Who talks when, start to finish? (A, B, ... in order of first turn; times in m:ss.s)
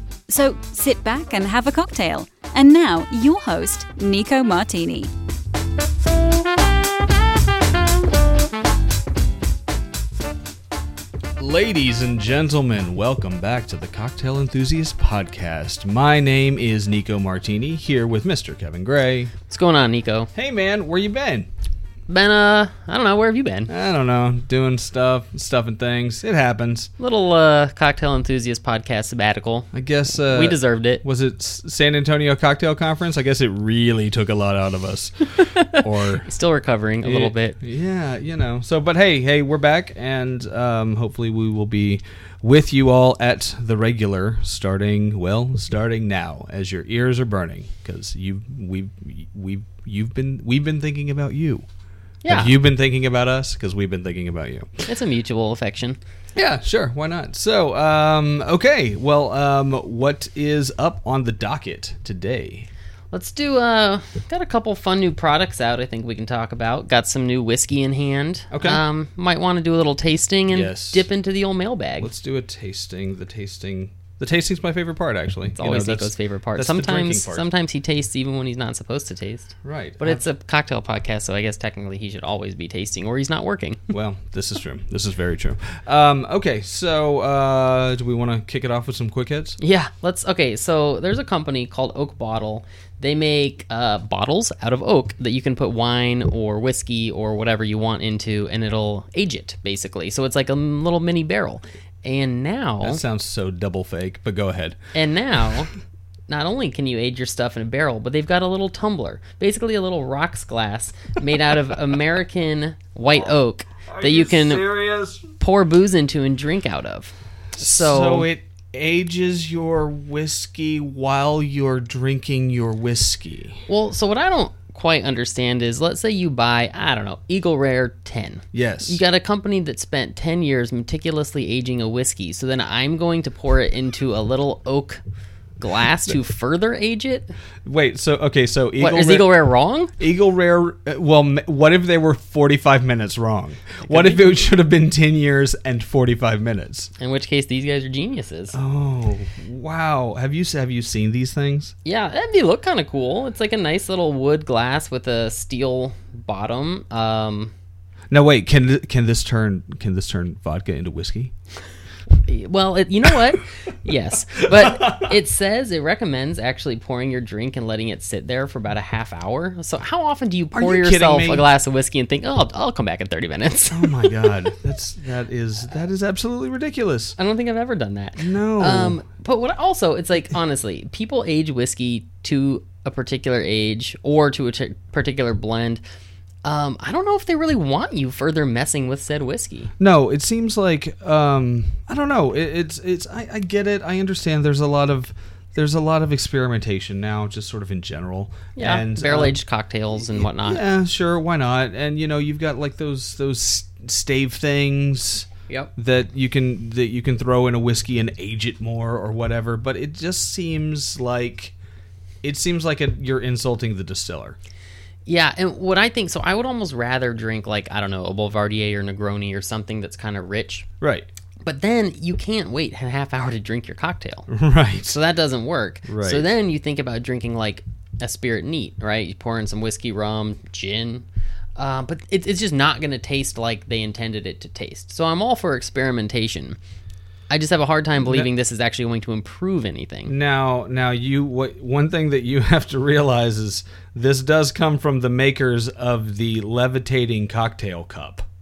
0:00.3-0:05.1 A
0:11.4-0:19.3 B
0:19.5-0:20.3 C
0:20.4-0:21.5 B
0:22.1-0:23.7 C
0:23.7-0:26.9 B
0:27.0-0:31.0 C
0:29.7-0:36.3 B
0:35.5-0:37.6 C
0:37.0-0:51.6 B
0:52.2-0:52.6 C
0:52.3-0:54.8 B
0:54.9-0:56.0 C
0:56.4-1:02.7 B
1:03.1-1:12.1 C
1:08.5-1:08.8 B
1:10.5-1:11.1 B
1:12.0-1:17.5 B
1:15.6-1:23.9 C
1:19.6-1:20.2 B
1:23.9-1:29.6 B
1:29.6-1:43.0 C
1:42.8-1:44.8 B
1:44.9-1:45.7 C
1:46.3-1:54.7 C
1:53.9-1:55.2 B
1:55.4-1:58.3 C
1:57.6-2:03.6 B
2:03.7-2:15.0 C
2:08.5-2:09.0 B
2:15.6-2:17.3 C
2:17.6-2:19.4 B
2:18.8-2:19.9 C
2:20.0-2:26.9 B
2:23.8-2:24.3 C
2:27.0-2:28.6 C
2:28.5-2:31.7 B
2:31.8-2:37.5 C
2:38.1-2:41.3 B
2:42.2-2:54.4 C
2:44.5-2:45.1 B
2:50.5-2:51.5 B
2:53.7-2:57.2 B
2:57.2-3:05.8 C
2:58.2-2:59.0 B
3:06.4-3:09.7 C
3:09.8-3:19.4 B
3:18.6-3:20.6 C
3:20.2-3:31.5 B
3:32.2-3:34.4 B
3:35.1-3:40.7 C
3:40.8-3:41.1 B
3:41.4-3:44.3 C
3:44.3-3:45.0 B
3:44.9-3:51.0 C
3:45.9-3:46.3 B
3:51.6-3:56.6 C
3:57.3-4:00.1 C
3:58.0-3:58.3 B
4:00.1-4:08.2 B